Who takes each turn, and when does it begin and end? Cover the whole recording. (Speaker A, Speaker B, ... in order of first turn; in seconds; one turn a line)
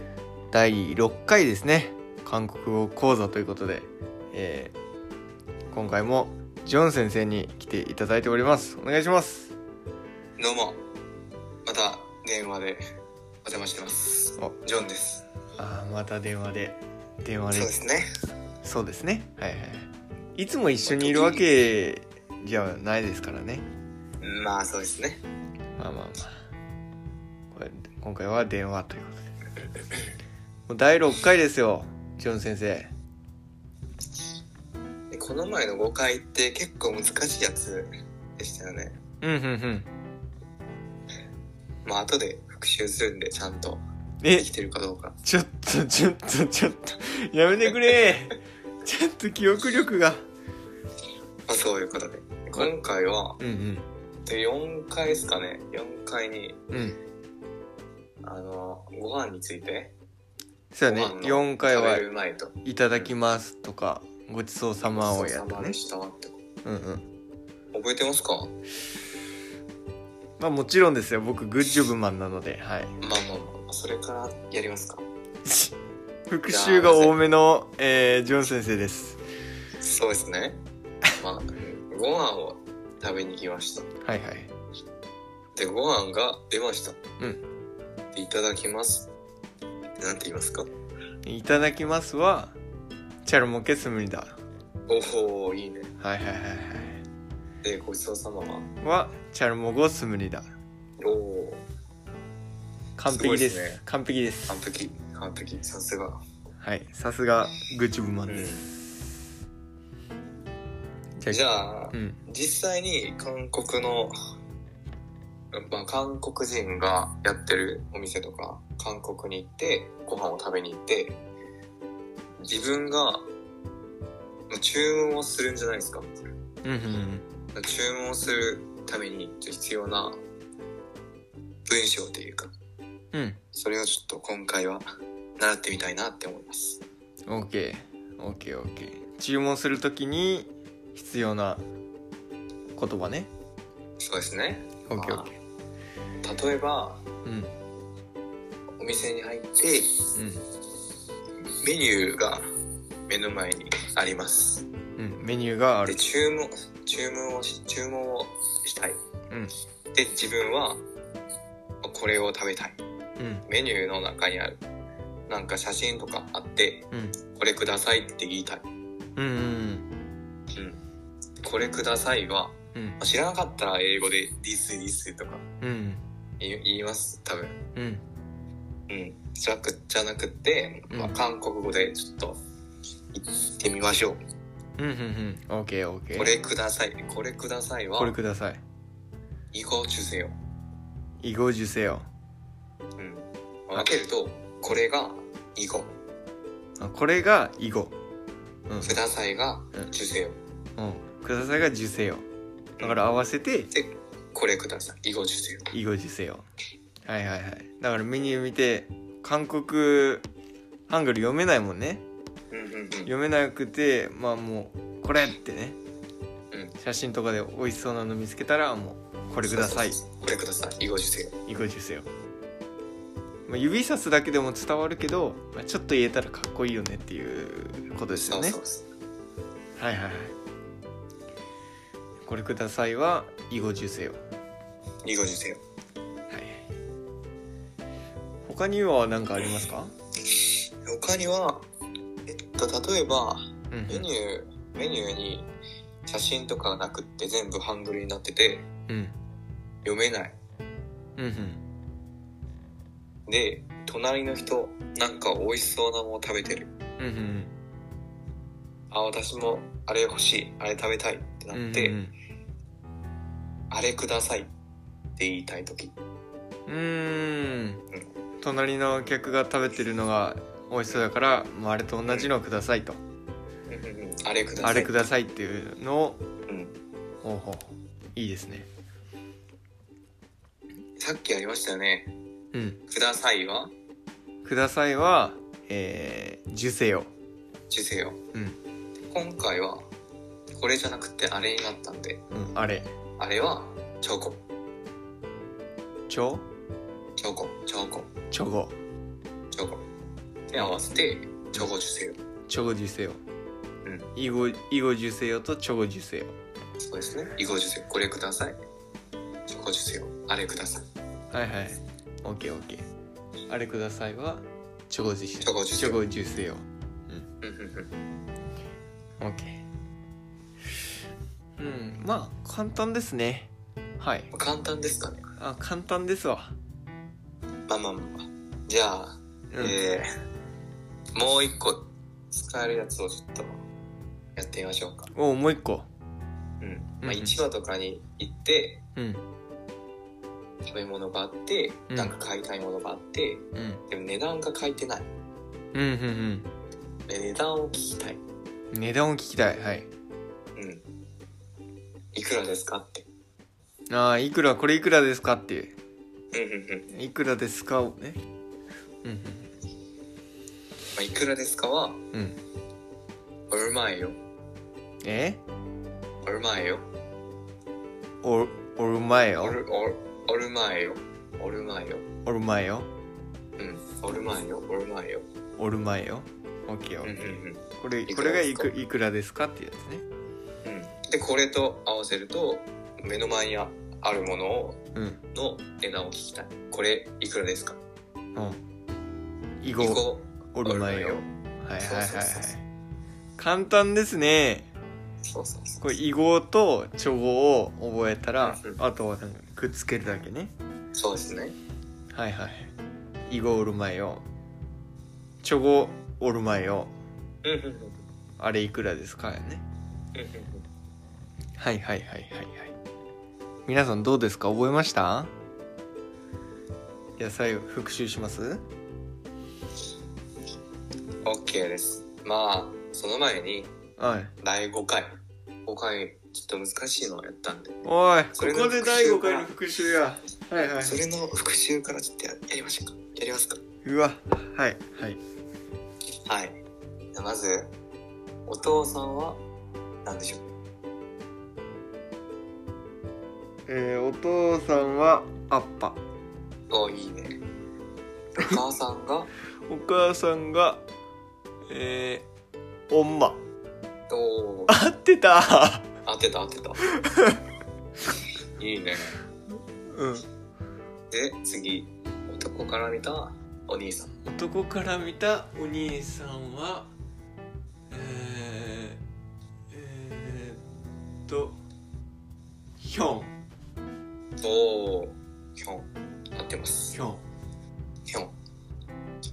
Speaker A: 0.5-4.7
Speaker A: 5.7-9.5
Speaker B: 10.4-10.8
Speaker B: 11.7-12.8
Speaker B: 13.4-15.2
Speaker A: 15.6-17.7
Speaker B: 17.5-18.1
Speaker A: 18.6-23.6
Speaker B: 20.8-21.5
Speaker B: 24.2-25.2
Speaker A: 25.8-26.4
Speaker A: 27.5-29.2
Speaker A: 30.7-32.9
Speaker B: 35.1-39.0
Speaker A: 39.2-39.9
Speaker B: 41.8-43.8
Speaker A: 44.2-44.5
Speaker B: 44.3-45.2
Speaker A: 45.2-50.3
Speaker B: 51.5-53.4
Speaker A: 53.4-53.9
Speaker B: 54.3-56.6
Speaker A: 56.7-57.0
Speaker B: 58.2-59.9
Speaker A: 60.7-62.0
Speaker B: 60.9-63.1
Speaker A: 62.6-65.8
Speaker B: 64.9-66.4
Speaker A: 66.7-67.0
Speaker B: 67.7-68.5
Speaker A: 70.4-72.9
Speaker B: 73.0-75.0
Speaker A: 75.4-75.8
Speaker A: 76.3-79.2
Speaker B: 76.5-77.1
Speaker B: 79.8-80.6
Speaker B: 81.2-83.9
Speaker A: 84.0-84.5
Speaker B: 85.6-87.0
Speaker B: 88.1-89.1
Speaker B: 90.0-90.7
Speaker A: 91.2-92.6
Speaker A: 93.2-94.4
Speaker B: 94.9-95.9
Speaker A: 96.0-97.0
Speaker B: 97.6-98.7
Speaker A: 98.8-100.5
Speaker B: 101.0-101.6
Speaker A: 103.0-104.5
Speaker B: 103.1-103.8
Speaker B: 104.5-106.2
Speaker A: 106.6-108.7
Speaker B: 108.3-108.7
Speaker B: 111.3-114.2
Speaker A: 111.9-112.2
Speaker B: 115.5-121.2
Speaker B: 122.4-123.3
Speaker B: 124.5-126.1
Speaker A: 126.6-127.2
Speaker B: 127.5-130.2
Speaker B: 131.7-132.5
Speaker A: 133.1-133.4
Speaker B: 133.5-134.8
Speaker B: 135.4-136.8
Speaker A: 137.3-141.6
Speaker A: 142.8-143.3
Speaker B: 144.0-145.3
Speaker A: 144.9-145.3
Speaker B: 146.2-147.0
Speaker A: 147.2-147.5
Speaker B: 148.8-150.0
Speaker A: 150.2-150.4
Speaker B: 151.6-152.4
Speaker B: 153.1-154.6
Speaker A: 155.0-156.0
Speaker B: 155.8-159.0
Speaker B: 159.9-160.8
Speaker B: 161.8-162.8
Speaker A: 163.2-163.4
Speaker B: 163.5-164.6
Speaker B: 165.3-168.6
Speaker A: 169.2-169.9
Speaker B: 171.4-175.4
Speaker A: 175.6-176.0
Speaker B: 176.4-177.6
Speaker A: 177.8-178.0
Speaker B: 178.9-182.4
Speaker A: 180.9-181.2
Speaker B: 183.1-184.2
Speaker A: 184.8-186.3
Speaker B: 186.2-188.2
Speaker A: 188.0-188.6
Speaker B: 189.5-190.3
Speaker A: 191.2-192.1
Speaker B: 193.0-195.9
Speaker A: 196.8-197.9
Speaker A: 198.7-199.0
Speaker B: 198.8-200.4
Speaker A: 200.8-202.2
Speaker B: 202.8-203.1
Speaker A: 202.8-203.7
Speaker B: 203.7-205.7
Speaker A: 205.7-206.4
Speaker A: 207.0-210.3
Speaker A: 210.9-212.0
Speaker B: 212.5-213.1
Speaker A: 213.0-215.8
Speaker A: 216.8-220.0
Speaker B: 219.4-221.4
Speaker A: 221.5-222.1
Speaker A: 223.5-228.6
Speaker B: 228.2-228.8
Speaker A: 229.8-230.3
Speaker A: 232.2-234.2
Speaker B: 235.0-235.6
Speaker A: 236.3-236.6
Speaker A: 238.4-239.9
Speaker B: 240.8-241.6
Speaker B: 242.3-245.5
Speaker A: 243.7-244.1
Speaker B: 246.1-248.7
Speaker A: 248.9-249.2
Speaker B: 249.8-250.3
Speaker A: 251.2-251.6
Speaker B: 253.3-256.7
Speaker A: 257.0-257.5
Speaker B: 258.9-262.0
Speaker A: 261.5-262.1
Speaker B: 263.7-264.5
Speaker B: 265.2-265.9
Speaker A: 266.7-267.8
Speaker A: 268.4-273.0
Speaker B: 273.7-274.9
Speaker A: 274.6-276.2
Speaker B: 276.5-276.8
Speaker A: 277.2-278.7
Speaker B: 281.0-282.1
Speaker A: 282.5-282.8
Speaker B: 282.9-283.7
Speaker A: 284.4-287.1
Speaker B: 287.7-288.2
Speaker B: 289.1-289.8
Speaker B: 290.6-292.2
Speaker A: 292.3-292.9
Speaker B: 293.2-294.4
Speaker A: 296.1-296.5
Speaker B: 297.2-298.1
Speaker A: 298.3-298.8
Speaker B: 299.5-299.8
Speaker B: 300.5-302.2
Speaker A: 302.5-303.2
Speaker A: 304.2-306.3
Speaker B: 306.8-308.6
Speaker B: 309.5-310.9
Speaker A: 311.3-312.9
Speaker A: 313.5-317.3
Speaker B: 315.4-316.0
Speaker B: 317.4-317.9
Speaker A: 319.2-319.6
Speaker A: 321.6-323.5
Speaker A: 324.0-324.3
Speaker B: 324.3-325.3
Speaker A: 325.4-326.6
Speaker B: 327.7-330.1
Speaker A: 329.5-329.8
Speaker B: 331.1-333.6
Speaker B: 334.4-335.1
Speaker A: 335.1-335.9
Speaker B: 336.6-338.8
Speaker A: 337.0-337.4
Speaker A: 339.0-339.2
Speaker B: 340.7-345.1
Speaker A: 341.9-342.1
Speaker A: 343.6-343.8
Speaker A: 345.7-346.5
Speaker B: 347.1-348.2
Speaker A: 348.7-349.9
Speaker B: 350.6-350.8
Speaker B: 352.1-353.1
Speaker A: 353.9-355.7
Speaker B: 356.3-356.9
Speaker A: 356.9-358.2
Speaker A: 359.0-359.5
Speaker B: 360.9-362.0
Speaker A: 362.1-362.4
Speaker B: 363.5-364.2
Speaker A: 365.0-365.4
Speaker B: 366.2-366.9
Speaker A: 368.2-369.6
Speaker B: 369.4-372.1
Speaker A: 372.2-372.9
Speaker B: 373.6-375.2
Speaker A: 375.6-380.1
Speaker B: 377.0-378.7
Speaker B: 380.6-384.8
Speaker B: 385.3-387.8
Speaker A: 389.6-390.0
Speaker B: 389.8-391.3
Speaker A: 390.5-392.6
Speaker B: 391.8-392.5
Speaker A: 393.4-394.7
Speaker B: 395.2-395.9
Speaker A: 395.8-400.5
Speaker B: 398.4-398.8
Speaker B: 401.0-401.6
Speaker A: 402.1-402.7
Speaker A: 403.3-404.2
Speaker A: 405.4-406.9
Speaker B: 407.4-408.0
Speaker A: 408.4-409.6
Speaker B: 410.1-410.6
Speaker A: 411.6-412.8
Speaker A: 413.7-415.3
Speaker A: 417.2-418.6
Speaker B: 421.2-423.7
Speaker A: 424.0-424.3
Speaker B: 424.4-425.1
Speaker B: 425.7-427.8
Speaker A: 427.9-431.0
Speaker B: 428.4-429.5
Speaker B: 430.8-433.6
Speaker A: 433.9-435.2
Speaker B: 436.2-436.6
Speaker B: 437.1-437.7
Speaker B: 438.5-439.4
Speaker B: 440.1-440.4
Speaker A: 443.7-446.0
Speaker B: 446.7-447.4
Speaker B: 448.4-449.3
Speaker A: 449.7-450.8
Speaker A: 451.7-452.2
Speaker A: 452.9-453.4
Speaker B: 454.1-454.7
Speaker A: 454.7-455.9
Speaker B: 456.1-456.8
Speaker A: 457.0-457.4
Speaker B: 458.6-459.1
Speaker A: 459.9-460.2
Speaker B: 461.1-464.1
Speaker A: 464.2-466.9
Speaker A: 467.9-469.0
Speaker A: 469.7-470.6
Speaker A: 471.3-471.6
Speaker A: 472.8-473.3
Speaker B: 474.4-477.0
Speaker A: 476.9-477.2
Speaker B: 478.1-478.3